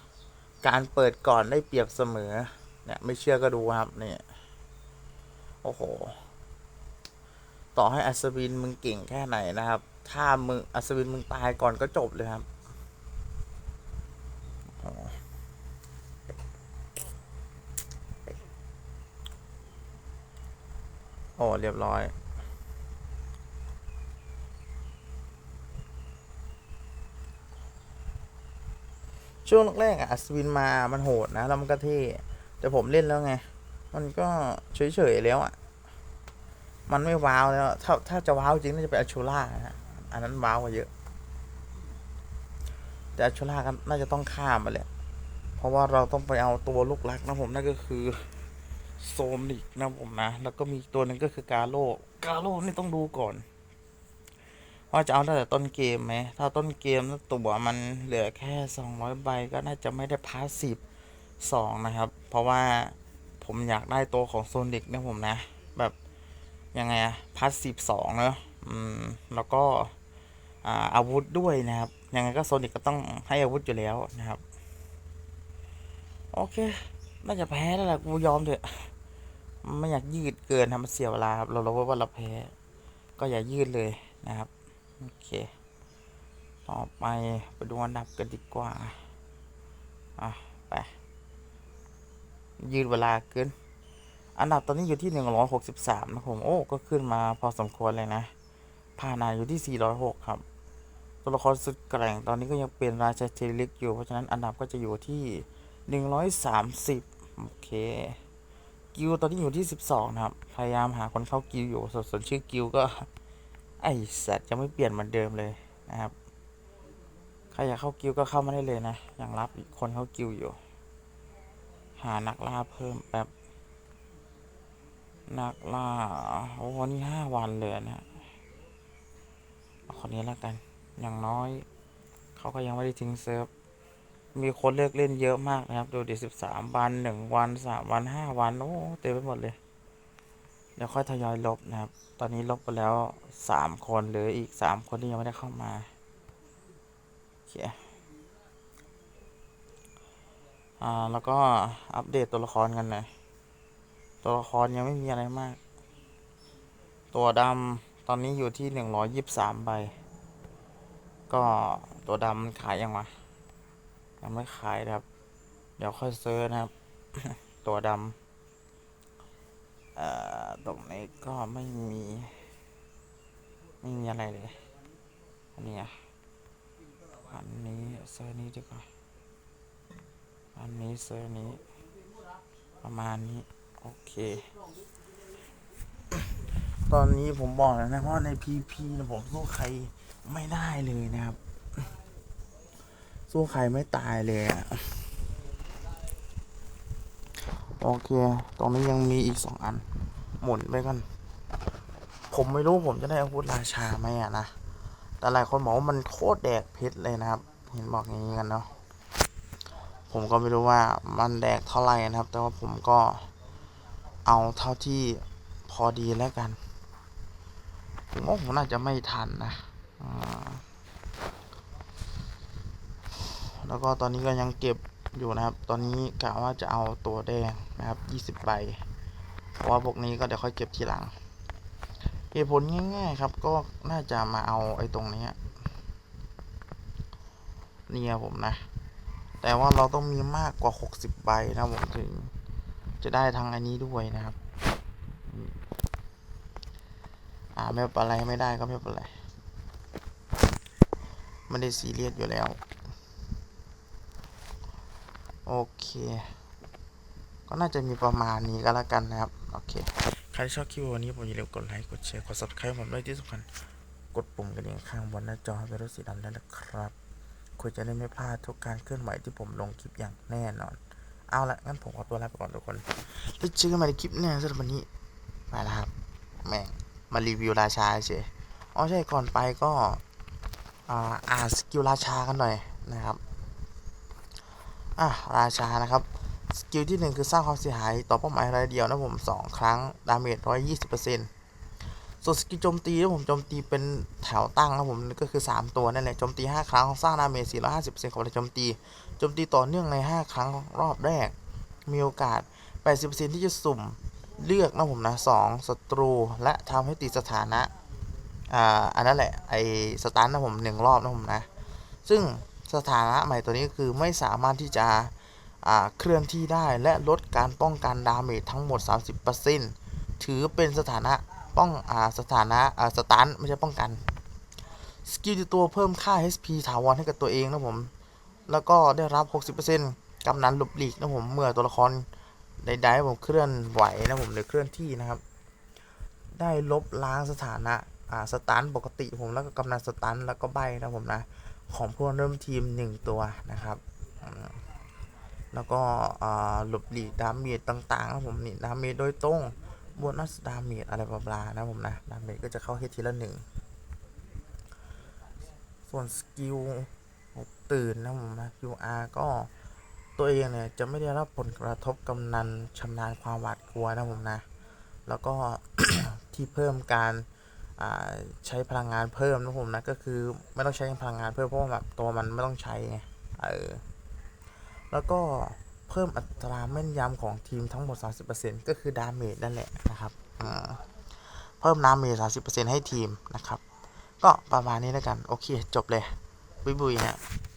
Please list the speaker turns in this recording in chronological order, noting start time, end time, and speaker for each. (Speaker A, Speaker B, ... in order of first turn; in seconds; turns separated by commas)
Speaker A: 0.6-4.2, Speaker A: 5.6-6.2, Speaker A: 7.7-12.5, Speaker A: 14.8-15.2, Speaker A: 21.4-22.1, Speaker A: 29.4-35.5, Speaker A: 36.9-40.9, Speaker A: 43.1-44.9, Speaker A: 45.6-48.3, Speaker A: 49.0-53.4, Speaker A: 54.9-60.8, Speaker A: 61.4-65.9, Speaker A: 66.7-69.9, Speaker A: 70.6-74.4, Speaker A: 76.3-78.9, Speaker A: 79.6-82.5, Speaker A: 83.2-85.5, Speaker A: 86.7-89.0, Speaker A: 90.2-90.9, Speaker A: 92.6-93.5, Speaker A: 94.4-98.3, Speaker A: 99.0-100.4, Speaker A: 101.2-108.2, Speaker A: 108.9-113.1, Speaker A: 113.8-116.1, Speaker A: 117.5-120.6, Speaker A: 122.0-123.3, Speaker A: 125.3-128.1, Speaker A: 129.9-131.7, Speaker A: 132.3-133.5, Speaker A: 134.3-139.6, Speaker A: 140.8-145.9, Speaker A: 147.5-147.8, Speaker A: 150.8-153.1, Speaker A: 154.2-155.6, Speaker A: 157.1-159.9, Speaker A: 161.3-163.1, Speaker A: 164.2-165.1, Speaker A: 165.8-168.2, Speaker A: 169.9-172.4, Speaker A: 173.8-174.6, Speaker A: 175.6-175.9, Speaker A: 177.3-178.9, Speaker A: 180.6-181.7, Speaker A: 182.8-184.5, Speaker A: 186.9-191.4, Speaker A: 193.3-195.0, Speaker A: 197.7-201.1, Speaker A: 202.3-204.5, Speaker A: 205.2-208.7, Speaker A: 210.1-213.3, Speaker A: 214.2-216.6, Speaker A: 218.1-220.6, Speaker A: 223.4-228.8, Speaker A: 229.6-231.1, Speaker A: 232.3-235.4, Speaker A: 237.9-238.6, Speaker A: 239.4-242.3, Speaker A: 243.0-244.4, Speaker A: 245.3-245.5, Speaker A: 247.6-249.1, Speaker A: 251.5-252.6, Speaker A: 255.4-256.3, Speaker A: 257.5-263.5, Speaker A: 264.1-266.9, Speaker A: 267.6-270.8, Speaker A: 271.3-274.9, Speaker A: 275.5-275.9, Speaker A: 276.4-280.0, Speaker A: 280.9-283.2, Speaker A: 285.0-291.3, Speaker A: 292.2-301.3, Speaker A: 301.9-307.7, Speaker A: 308.5-311.5, Speaker A: 312.0-324.0, Speaker A: 325.0-327.9, Speaker A: 328.5-332.1, Speaker A: 332.6-335.2, Speaker A: 336.3-344.6, Speaker A: 345.5-353.4, Speaker A: 355.9-359.5, Speaker A: 360.2-364.4, Speaker A: 365.1-373.8, Speaker A: 374.9-380.8, Speaker A: 381.4-383.6, Speaker A: 384.2-387.2